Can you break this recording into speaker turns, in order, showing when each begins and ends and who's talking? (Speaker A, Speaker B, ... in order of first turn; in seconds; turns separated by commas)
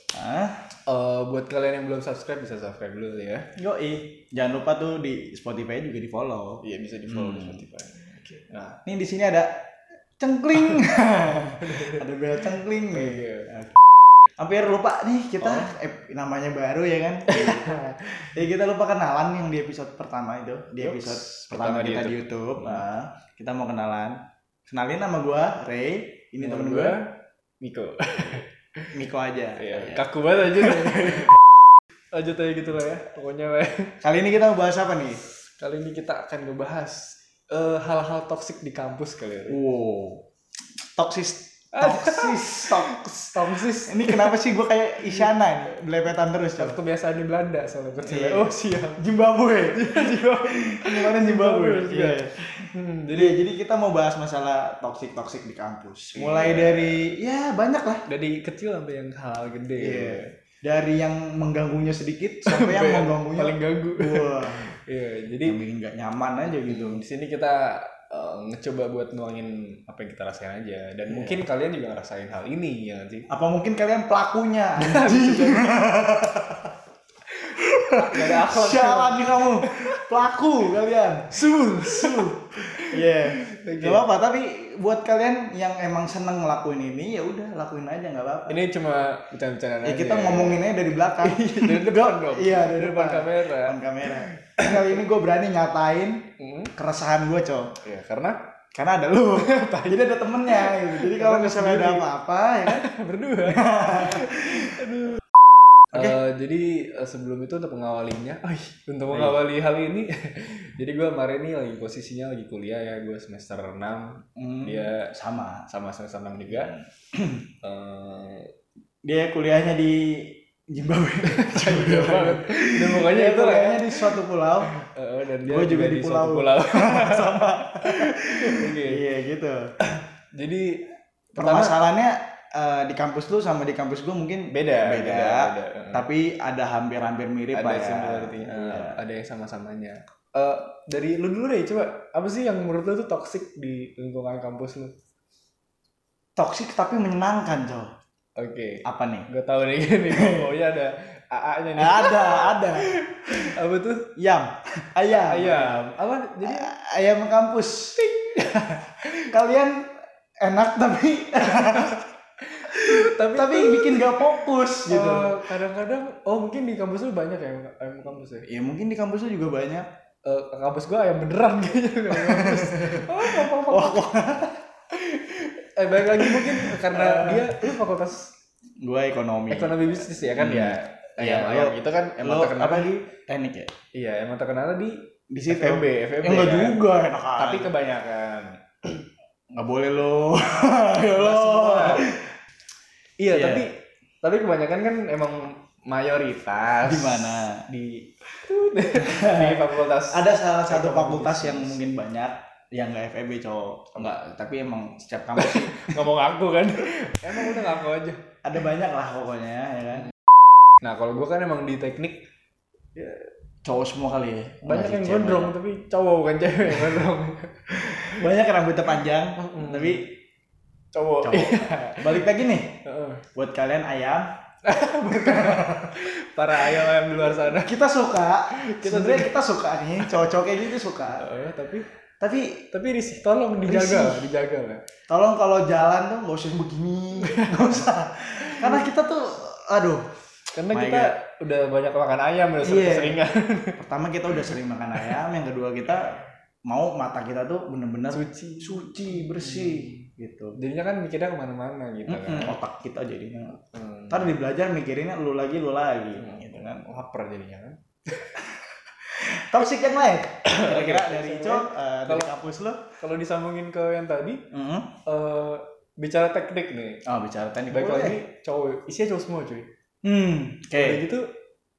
Speaker A: 0.1-0.6, Speaker B: 0.9-3.5, Speaker A: 3.6-7.7, Speaker B: 6.6-8.8, Speaker A: 8.8-9.5, Speaker A: 10.2-13.8, Speaker B: 11.4-13.6, Speaker A: 14.4-27.0, Speaker B: 15.4-15.7, Speaker B: 17.3-18.3, Speaker B: 20.8-22.8, Speaker B: 26.4-28.9, Speaker A: 28.9-31.4, Speaker B: 29.6-31.4, Speaker B: 32.1-34.0, Speaker A: 34.0-35.2, Speaker B: 35.6-39.6, Speaker A: 39.5-40.2, Speaker A: 40.9-46.8, Speaker B: 41.7-44.4, Speaker B: 45.0-45.3, Speaker B: 46.6-49.1, Speaker A: 48.0-58.1, Speaker B: 49.7-53.4, Speaker B: 56.1-57.1, Speaker B: 58.1-60.3, Speaker A: 59.8-64.7, Speaker B: 62.5-65.6, Speaker A: 65.4-67.0, Speaker B: 66.6-73.3, Speaker A: 71.1-71.4, Speaker A: 73.3-76.7, Speaker B: 74.8-75.9, Speaker A: 77.5-88.6, Speaker B: 78.0-80.0, Speaker B: 81.3-84.0, Speaker B: 88.5-94.9, Speaker A: 89.8-97.8, Speaker B: 96.4-96.7, Speaker B: 97.8-98.4, Speaker A: 98.7-102.9, Speaker B: 99.3-102.1, Speaker B: 102.7-105.2, Speaker A: 103.4-104.8, Speaker A: 105.9-106.2, Speaker B: 105.9-115.1, Speaker A: 114.4-115.7, Speaker B: 115.7-116.8, Speaker A: 116.5-117.5, Speaker B: 117.6-118.5, Speaker A: 119.0-124.7, Speaker B: 121.3-124.2, Speaker B: 124.7-129.0, Speaker A: 125.4-129.7, Speaker B: 130.3-130.8, Speaker B: 131.3-131.8, Speaker A: 131.4-139.0, Speaker B: 134.5-136.1, Speaker B: 137.5-144.9, Speaker A: 146.4-147.9, Speaker B: 148.4-154.1, Speaker A: 148.8-149.3, Speaker A: 150.1-150.5, Speaker A: 151.8-153.5, Speaker A: 154.2-155.9, Speaker B: 155.1-156.7, Speaker A: 156.4-158.0, Speaker B: 158.0-159.3, Speaker A: 159.2-159.9, Speaker A: 160.4-162.0, Speaker B: 161.4-168.5, Speaker A: 162.7-165.4, Speaker A: 168.5-169.9, Speaker B: 170.2-174.1, Speaker A: 172.1-174.6, Speaker B: 174.9-178.3, Speaker A: 176.1-177.8, Speaker A: 178.8-183.7, Speaker B: 179.5-183.0, Speaker B: 183.9-188.6, Speaker A: 185.3-187.7, Speaker A: 189.5-192.3, Speaker B: 191.1-192.1, Speaker B: 193.2-201.8, Speaker A: 193.3-193.7, Speaker A: 196.8-197.7, Speaker A: 198.9-206.0, Speaker B: 205.4-208.2, Speaker A: 207.3-207.7, Speaker A: 208.4-210.1, Speaker B: 210.8-212.2, Speaker A: 213.0-215.6, Speaker B: 214.6-218.3, Speaker A: 216.7-217.0, Speaker A: 218.0-220.2, Speaker B: 219.4-220.1, Speaker B: 220.9-223.2, Speaker A: 221.2-222.8, Speaker A: 223.3-224.3, Speaker B: 224.6-227.8, Speaker A: 225.1-226.0, Speaker A: 226.6-231.3, Speaker B: 228.5-229.4, Speaker B: 231.2-231.9, Speaker A: 232.2-232.7, Speaker B: 232.7-234.8, Speaker A: 233.6-234.3, Speaker A: 235.1-240.1, Speaker B: 237.2-237.9, Speaker B: 238.4-238.9, Speaker B: 240.5-243.8, Speaker A: 240.7-241.2, Speaker A: 242.6-243.2, Speaker A: 243.8-250.6, Speaker B: 248.1-250.1, Speaker B: 250.6-252.6, Speaker A: 252.1-256.9, Speaker B: 253.7-254.3, Speaker B: 256.1-258.5, Speaker A: 259.1-262.8, Speaker B: 260.5-262.4, Speaker B: 263.0-264.4, Speaker A: 264.5-264.9, Speaker B: 265.1-267.0, Speaker A: 267.1-268.2, Speaker B: 267.7-269.7, Speaker A: 270.0-271.0, Speaker B: 270.8-271.3